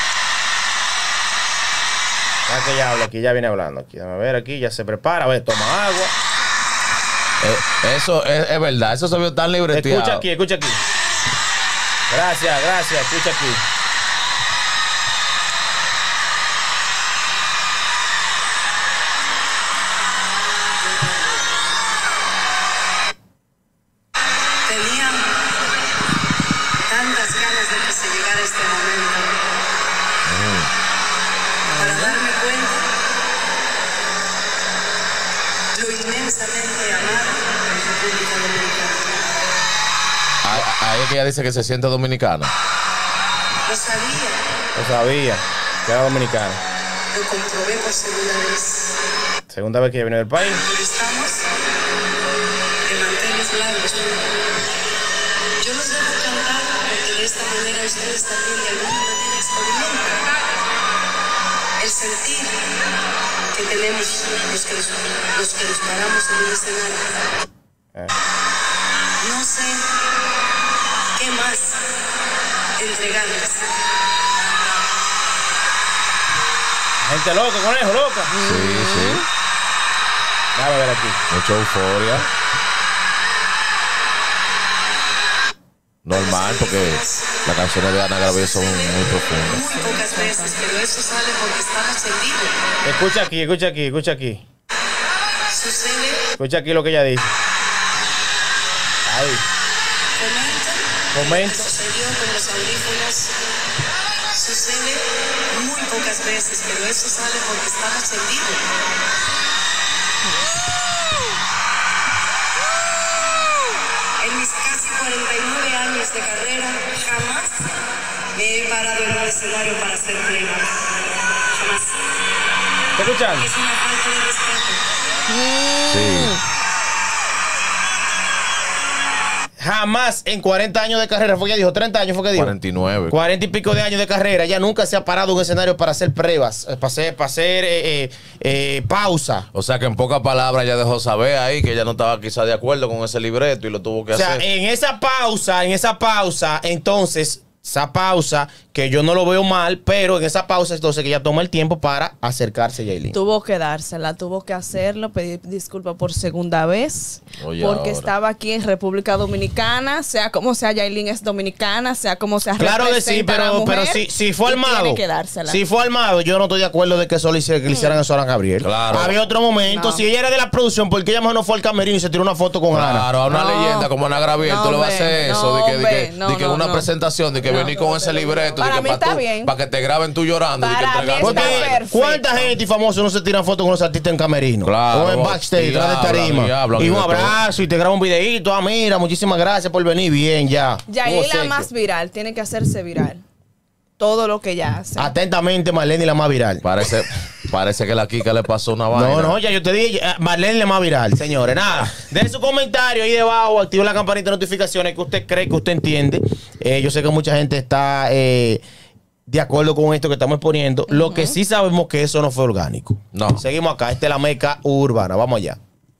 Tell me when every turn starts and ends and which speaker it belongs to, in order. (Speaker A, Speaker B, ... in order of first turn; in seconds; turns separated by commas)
Speaker A: 2.5-6.1, Speaker B: 7.4-10.2, Speaker A: 9.7-10.8, Speaker A: 12.1-13.6, Speaker C: 24.7-25.5, Speaker C: 26.9-29.6, Speaker B: 30.3-30.7, Speaker D: 31.7-32.2, Speaker C: 31.8-32.9, Speaker C: 35.8-39.3, Speaker B: 40.4-42.5, Speaker C: 43.7-44.4, Speaker A: 44.8-46.6, Speaker C: 47.1-48.9, Speaker A: 49.5-50.6, Speaker C: 50.5-51.5, Speaker C: 52.9-54.3, Speaker C: 55.6-60.3, Speaker C: 61.8-62.6, Speaker C: 63.5-67.2, Speaker C: 69.2-69.8, Speaker C: 71.2-71.8, Speaker C: 72.8-73.7, Speaker A: 77.0-78.3, Speaker D: 78.3-79.2, Speaker B: 78.4-79.2, Speaker A: 80.6-81.2, Speaker B: 81.3-82.3, Speaker B: 86.0-89.7, Speaker C: 86.1-87.4, Speaker C: 88.5-89.0, Speaker C: 89.5-92.5, Speaker D: 89.7-90.6, Speaker A: 92.8-94.4, Speaker C: 95.5-96.3, Speaker A: 96.4-97.3, Speaker A: 99.1-99.4, Speaker C: 100.2-103.3, Speaker A: 101.1-101.8, Speaker C: 104.3-108.6, Speaker C: 114.2-117.7, Speaker C: 118.3-120.9, Speaker C: 121.5-122.0, Speaker A: 123.0-123.5, Speaker C: 123.4-124.8, Speaker D: 125.3-126.4, Speaker B: 125.9-126.4, Speaker A: 129.6-132.5, Speaker B: 132.3-133.2, Speaker A: 133.1-139.5, Speaker B: 139.5-144.4, Speaker A: 144.1-153.2, Speaker D: 153.1-165.6, Speaker B: 157.4-158.1, Speaker A: 162.6-173.1, Speaker D: 167.7-168.0, Speaker B: 168.6-169.2, Speaker D: 169.6-170.0, Speaker B: 172.7-181.8, Speaker D: 173.3-173.9, Speaker D: 174.4-176.9, Speaker D: 177.5-177.7, Speaker D: 178.6-179.5, Speaker D: 180.6-182.6, Speaker A: 181.2-191.7, Speaker B: 184.6-187.4, Speaker D: 190.9-193.2, Speaker D: 194.0-195.1, Speaker A: 195.0-196.6, Speaker B: 196.6-199.4, Speaker A: 198.9-208.6, Speaker A: 209.3-215.6, Speaker D: 210.9-211.4, Speaker B: 213.1-213.4